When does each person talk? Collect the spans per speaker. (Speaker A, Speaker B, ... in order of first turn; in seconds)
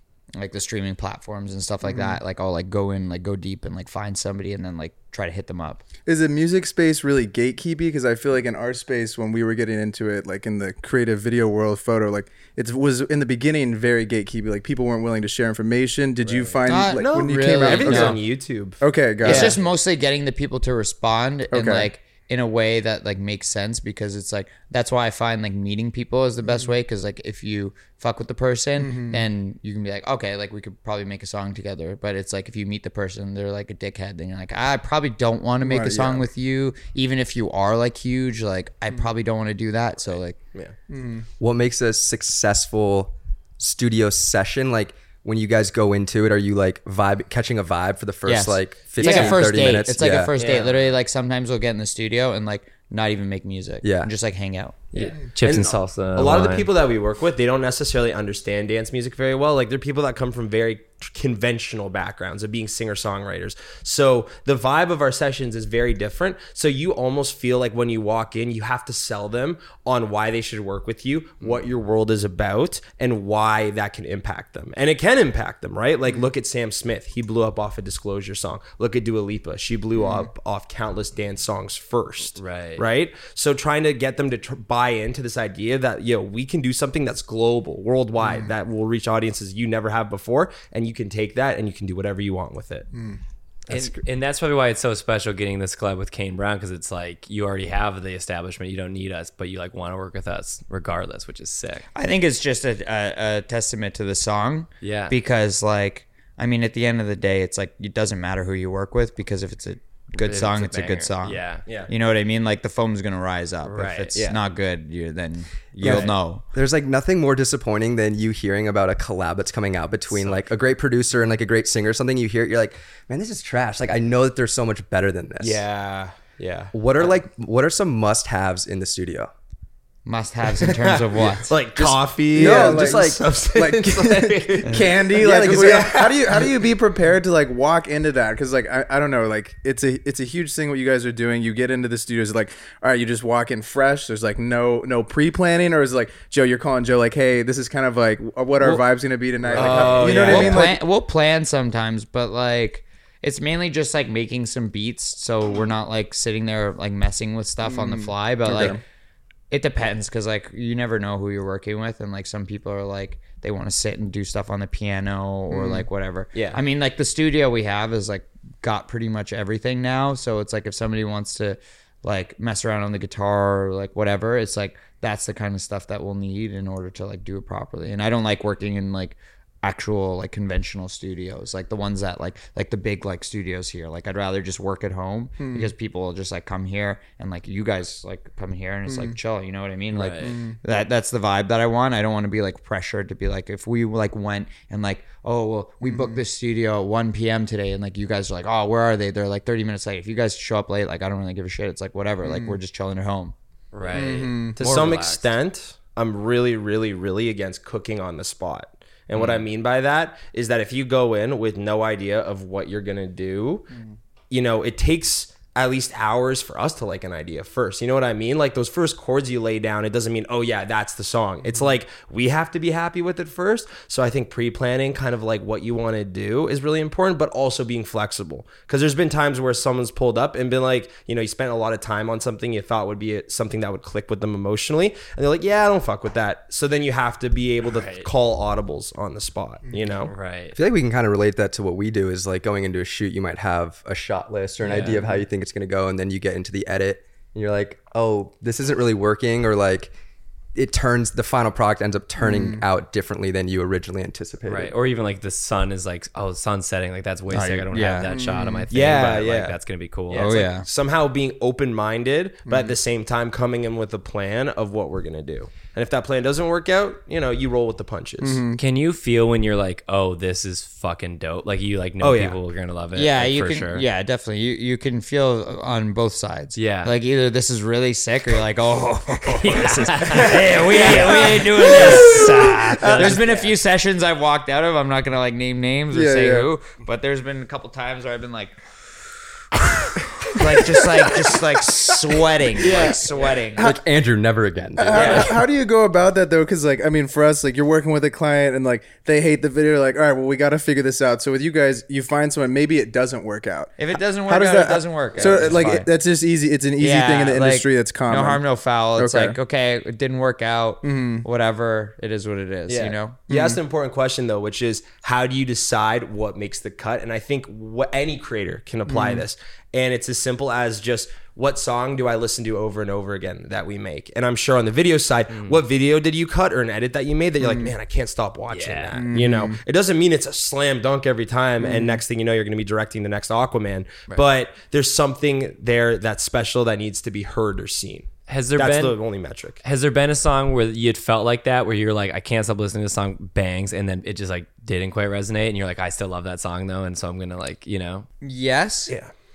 Speaker A: 0.4-5.8, 16.6-18.2, 19.2-40.4, 48.2-55.1, 101.9-116.4, 130.0-131.6, 150.2-158.8, 159.5-203.3, 257.3-258.1, 260.1-260.6, 272.9-288.6, 290.3-293.7, 294.9-295.3, 303.8-305.9, 306.8-313.2, 348.2-348.9
Speaker B: 1.8-2.2, 6.0-18.2, 18.8-19.6, 21.5-21.9, 28.8-29.2, 35.6-36.3, 40.9-41.2, 80.0-80.3, 88.2-88.5, 132.3-150.8, 157.6-158.8, 165.5-165.8, 185.4-185.7, 188.9-189.1, 190.2-190.6, 195.8-196.2, 202.2-202.6, 203.9-204.6, 252.2-252.6, 258.1-258.7, 262.5-262.8, 268.2-268.6, 280.3-283.2, 285.9-286.5, 290.3-291.4, 294.8-308.4, 309.0-309.4, 310.8-311.2, 313.3-313.6, 318.9-319.2, 327.4-327.7, 328.9-329.6, 331.6-332.0
Speaker C: 16.2-19.6, 49.0-49.4, 50.4-50.7, 54.9-92.9, 125.4-127.2, 130.6-136.3, 148.6-148.8, 149.4-150.7, 166.3-166.6, 204.6-213.7, 214.3-240.1, 258.7-259.6, 260.1-268.4, 272.0-272.4, 283.2-283.4, 292.6-293.4, 294.9-295.3, 305.2-305.5, 312.7-339.6
Speaker D: 41.4-50.3, 53.8-54.1, 115.8-125.6, 126.7-129.3, 132.3-134.2, 134.9-136.4, 240.5-249.9, 250.5-254.7, 293.6-295.4
Speaker E: 50.4-50.7, 54.9-56.7, 82.4-82.8, 93.7-101.8, 104.8-105.1, 110.2-111.7, 113.6-114.2, 115.8-116.1, 149.6-150.2, 189.9-190.4, 203.7-205.3, 209.1-209.4, 237.7-238.1, 240.1-240.6, 244.6-245.1, 254.5-260.4, 268.6-273.8, 276.6-276.9, 279.4-282.2, 282.8-283.2, 325.3-325.6, 328.5-329.2, 338.3-339.0, 339.6-348.1